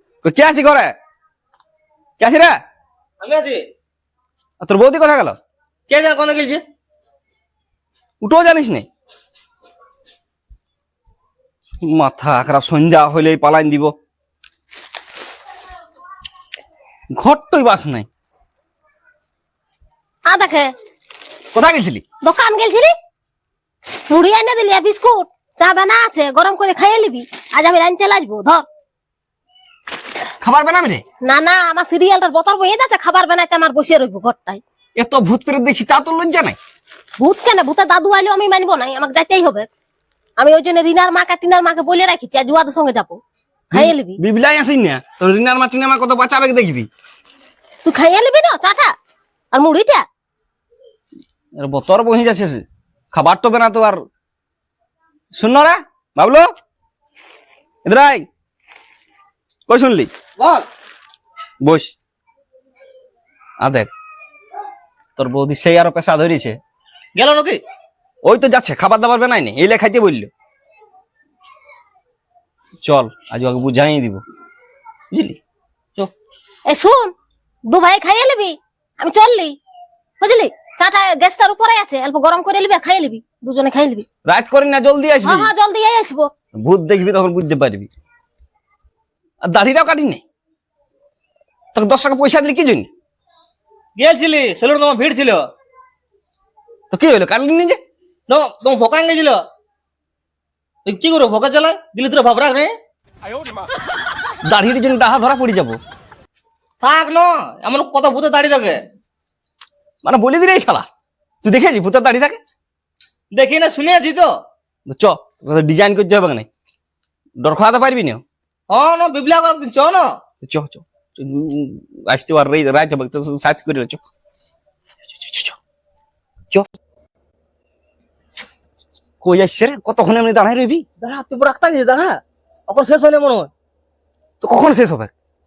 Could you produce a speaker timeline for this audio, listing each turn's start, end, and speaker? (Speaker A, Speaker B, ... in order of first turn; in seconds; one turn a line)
Speaker A: 0.2-0.9
Speaker A: 2.2-2.5
Speaker B: 3.2-3.7
Speaker A: 4.6-5.3
Speaker B: 5.9-6.6
Speaker A: 8.2-8.9
Speaker A: 11.8-13.9
Speaker A: 17.2-18.1
Speaker C: 20.3-20.7
Speaker A: 21.5-22.0
Speaker C: 22.2-22.9
Speaker C: 24.1-28.6
Speaker A: 30.4-31.0
Speaker C: 31.2-34.6
Speaker A: 35.0-36.6
Speaker C: 37.2-39.7
Speaker C: 40.4-43.2
Speaker C: 43.7-44.2
Speaker A: 43.7-46.9
Speaker C: 47.9-48.9
Speaker C: 49.5-50.0
Speaker A: 51.6-54.0
Speaker A: 55.4-56.5
Speaker A: 57.9-58.3
Speaker A: 59.7-60.1
Speaker B: 60.4-60.6
Speaker A: 61.6-61.9
Speaker A: 63.6-63.9
Speaker A: 65.2-66.6
Speaker B: 67.2-67.6
Speaker A: 68.2-70.3
Speaker A: 72.8-74.2
Speaker A: 75.1-75.4
Speaker C: 76.7-77.1
Speaker C: 77.7-79.5
Speaker C: 80.2-84.1
Speaker A: 84.3-85.5
Speaker C: 85.2-86.3
Speaker A: 86.5-87.9
Speaker A: 89.5-90.2
Speaker A: 91.7-92.9
Speaker B: 94.0-95.5
Speaker A: 96.9-97.8
Speaker B: 98.3-99.4
Speaker B: 100.8-102.7
Speaker A: 104.5-105.8
Speaker B: 106.8-108.8
Speaker A: 110.0-110.9
Speaker A: 111.4-112.4
Speaker B: 113.3-114.3
Speaker A: 114.9-116.5
Speaker A: 117.4-118.2
Speaker B: 118.7-120.2
Speaker A: 120.4-124.0
Speaker A: 125.2-125.6
Speaker A: 129.2-130.8
Speaker B: 131.0-133.5
Speaker A: 134.4-135.1